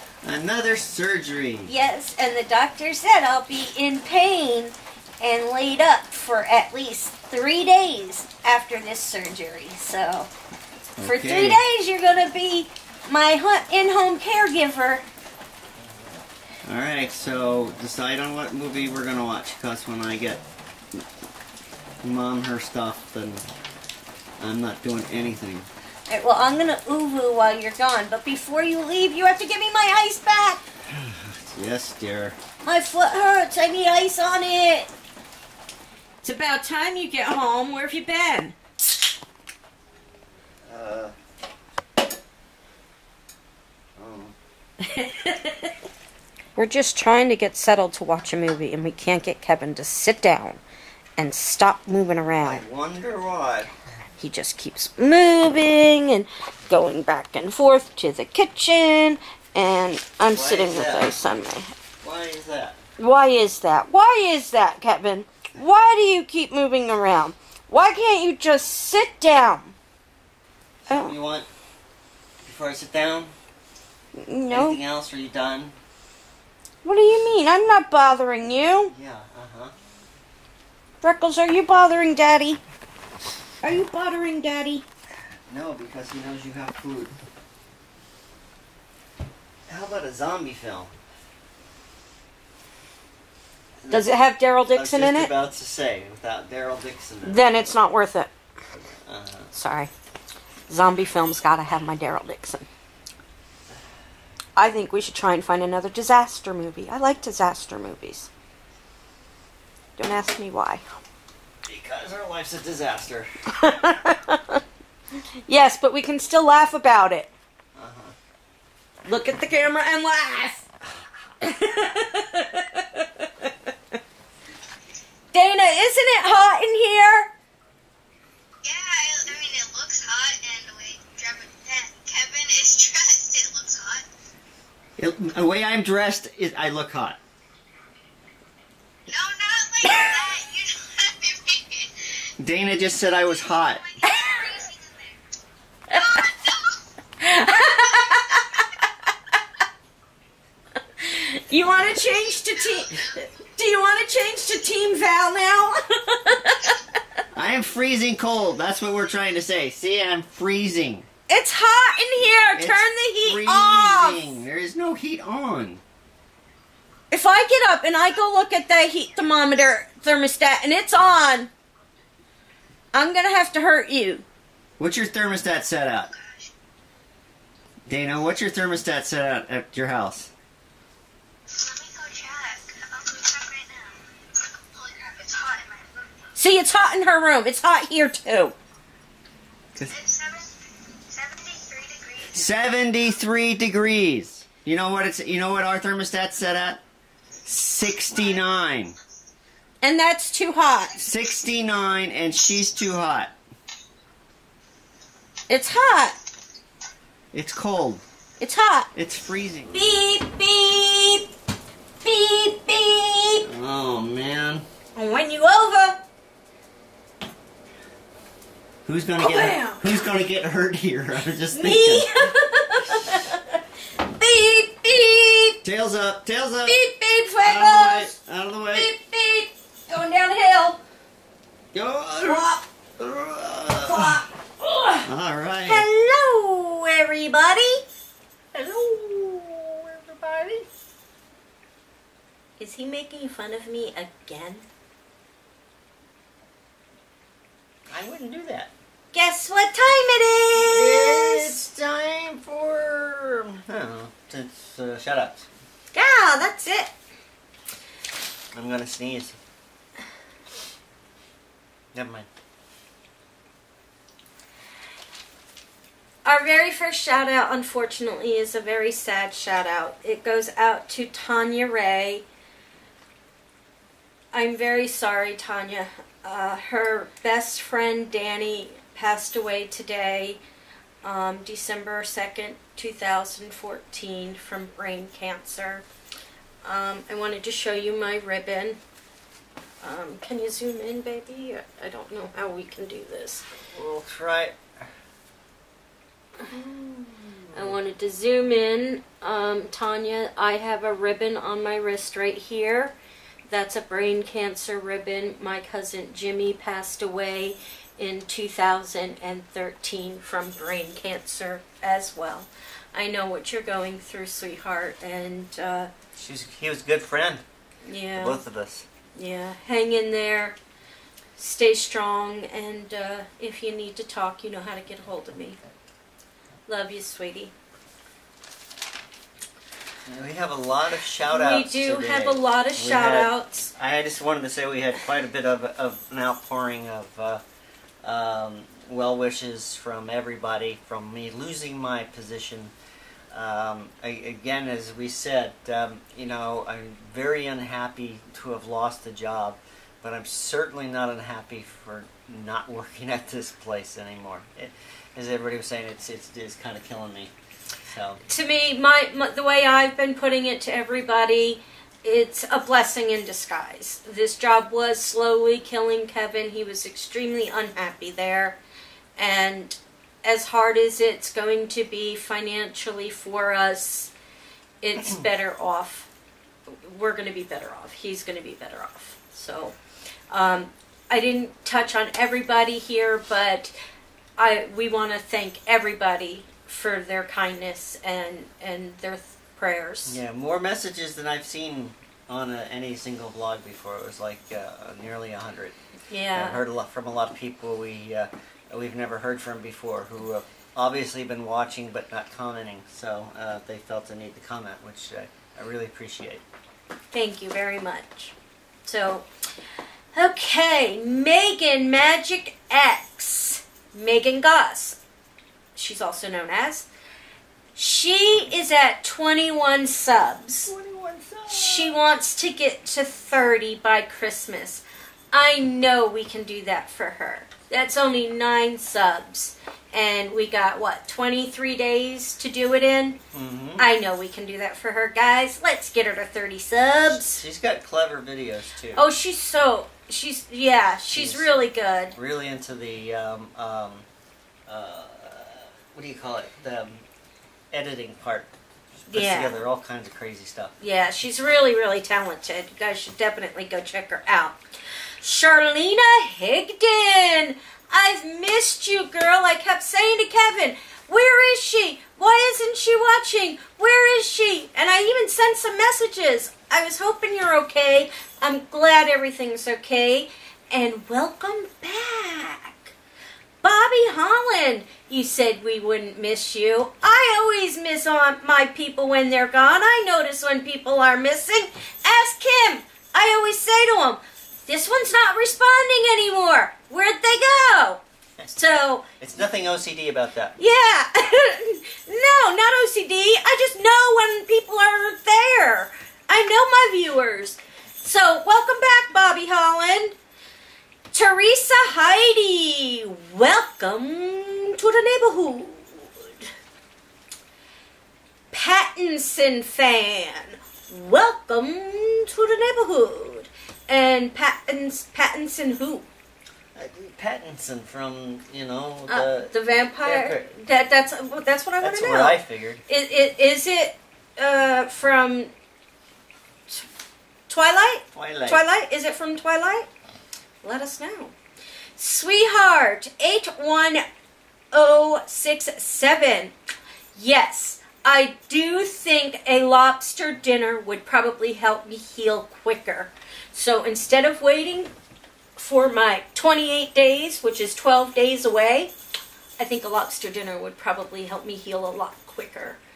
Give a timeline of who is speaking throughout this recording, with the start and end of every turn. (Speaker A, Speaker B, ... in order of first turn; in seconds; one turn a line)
Speaker A: 0.2-1.7
Speaker B: 1.6-10.3
Speaker A: 11.0-11.6
Speaker B: 11.0-15.0
Speaker A: 16.6-20.4
Speaker A: 22.0-23.4
Speaker A: 24.4-25.7
Speaker B: 26.1-30.6
Speaker A: 30.9-32.4
Speaker B: 32.6-34.9
Speaker B: 36.2-38.5
Speaker A: 40.7-41.1
Speaker A: 44.0-44.4
Speaker B: 44.8-45.7
Speaker B: 46.5-50.6
Speaker B: 51.2-52.6
Speaker A: 52.4-53.7
Speaker B: 54.2-61.7
Speaker A: 60.3-61.1
Speaker A: 62.0-62.8
Speaker B: 63.0-69.7
Speaker A: 70.8-71.5
Speaker B: 70.9-71.1
Speaker A: 72.4-73.3
Speaker B: 74.1-74.8
Speaker A: 74.5-75.8
Speaker B: 76.8-78.9
Speaker A: 78.9-79.7
Speaker B: 81.0-82.6
Speaker B: 83.6-84.8
Speaker A: 85.5-87.1
Speaker A: 89.7-90.9
Speaker A: 93.8-94.2
Speaker B: 93.9-95.3
Speaker A: 94.7-97.5
Speaker B: 97.2-98.3
Speaker A: 98.9-99.5
Speaker B: 99.5-99.9
Speaker B: 100.7-102.7
Speaker B: 104.5-108.3
Speaker B: 110.0-110.8
Speaker A: 111.6-114.0
Speaker B: 113.5-114.6
Speaker B: 115.5-117.3
Speaker A: 117.7-118.1
Speaker B: 119.0-120.6
Speaker B: 121.4-123.5
Speaker B: 125.3-127.3
Speaker C: 128.6-134.1
Speaker A: 135.0-137.2
Speaker C: 139.1-142.2
Speaker A: 142.4-143.8
Speaker C: 143.4-145.1
Speaker B: 144.0-144.5
Speaker C: 145.9-146.7
Speaker B: 145.9-146.2
Speaker B: 147.2-148.6
Speaker B: 151.0-156.8
Speaker C: 152.0-153.2
Speaker A: 157.3-161.1
Speaker B: 161.3-164.4
Speaker A: 162.5-165.8
Speaker B: 167.1-171.5
Speaker B: 172.9-174.2
Speaker A: 174.8-176.1
Speaker C: 176.2-176.5
Speaker A: 177.9-180.3
Speaker C: 181.5-184.0
Speaker C: 184.6-186.3
Speaker B: 186.3-188.6
Speaker C: 189.9-192.5
Speaker A: 192.3-196.8
Speaker A: 197.4-198.9
Speaker B: 199.8-201.0
Speaker A: 201.0-203.3
Speaker B: 205.5-206.2
Speaker A: 207.3-208.0
Speaker B: 208.4-208.9
Speaker A: 208.9-209.8
Speaker B: 209.7-211.3
Speaker B: 212.0-213.5
Speaker A: 213.4-214.6
Speaker B: 214.9-216.0
Speaker A: 218.8-222.2
Speaker B: 219.2-220.0
Speaker B: 221.5-223.5
Speaker A: 222.8-223.3
Speaker B: 224.1-225.6
Speaker A: 225.6-226.8
Speaker B: 226.7-228.1
Speaker A: 227.4-228.9
Speaker B: 228.7-230.8
Speaker A: 231.7-234.2
Speaker B: 232.2-232.6
Speaker B: 233.8-235.1
Speaker A: 235.0-235.9
Speaker B: 235.6-237.8
Speaker A: 238.5-240.7
Speaker B: 242.6-244.7
Speaker A: 247.9-248.7
Speaker B: 249.1-251.6
Speaker A: 250.6-255.4
Speaker B: 255.9-256.9
Speaker A: 258.5-259.4
Speaker A: 261.9-262.3
Speaker B: 266.2-272.2
Speaker B: 274.3-280.4
Speaker B: 281.0-285.8
Speaker B: 286.6-288.8
Speaker B: 289.8-293.4
Speaker A: 293.7-294.9
Speaker A: 296.5-297.7
Speaker B: 297.5-302.9
Speaker B: 303.5-315.9
Speaker A: 316.2-317.4
Speaker B: 317.9-318.4
Speaker A: 318.2-318.9
Speaker B: 319.1-320.6
Speaker B: 321.4-325.6
Speaker B: 326.7-327.5
Speaker A: 330.1-337.4
Speaker B: 331.3-333.7
Speaker A: 338.0-342.7
Speaker A: 343.3-357.3
Speaker A: 357.9-358.2
Speaker B: 358.3-368.6
Speaker B: 369.2-374.1
Speaker B: 374.8-376.1
Speaker B: 376.7-379.8
Speaker B: 380.3-383.7
Speaker B: 384.4-390.2
Speaker A: 390.1-395.8
Speaker B: 396.1-396.6
Speaker A: 396.3-406.4
Speaker B: 407.1-408.3
Speaker B: 408.8-409.3
Speaker B: 410.1-415.0
Speaker B: 415.8-416.9
Speaker B: 417.8-420.7
Speaker A: 420.7-422.0
Speaker B: 421.5-433.2
Speaker A: 433.3-433.9
Speaker B: 433.8-437.4
Speaker A: 437.1-439.1
Speaker B: 438.9-442.1
Speaker A: 441.1-444.1
Speaker A: 444.7-447.0
Speaker A: 447.7-448.5
Speaker A: 449.1-450.7
Speaker B: 449.1-449.5
Speaker B: 450.8-454.6
Speaker B: 455.2-472.9
Speaker B: 473.6-488.0
Speaker B: 488.5-489.1
Speaker A: 489.2-490.6
Speaker B: 490.6-500.1
Speaker B: 501.1-506.5
Speaker B: 508.5-516.1
Speaker A: 516.7-520.5
Speaker B: 519.1-525.5
Speaker A: 521.8-522.8
Speaker B: 527.5-529.9
Speaker A: 528.1-528.6
Speaker B: 530.6-531.3
Speaker B: 532.0-534.0
Speaker B: 534.7-536.5
Speaker B: 537.1-544.9
Speaker B: 545.5-548.9
Speaker B: 549.6-552.8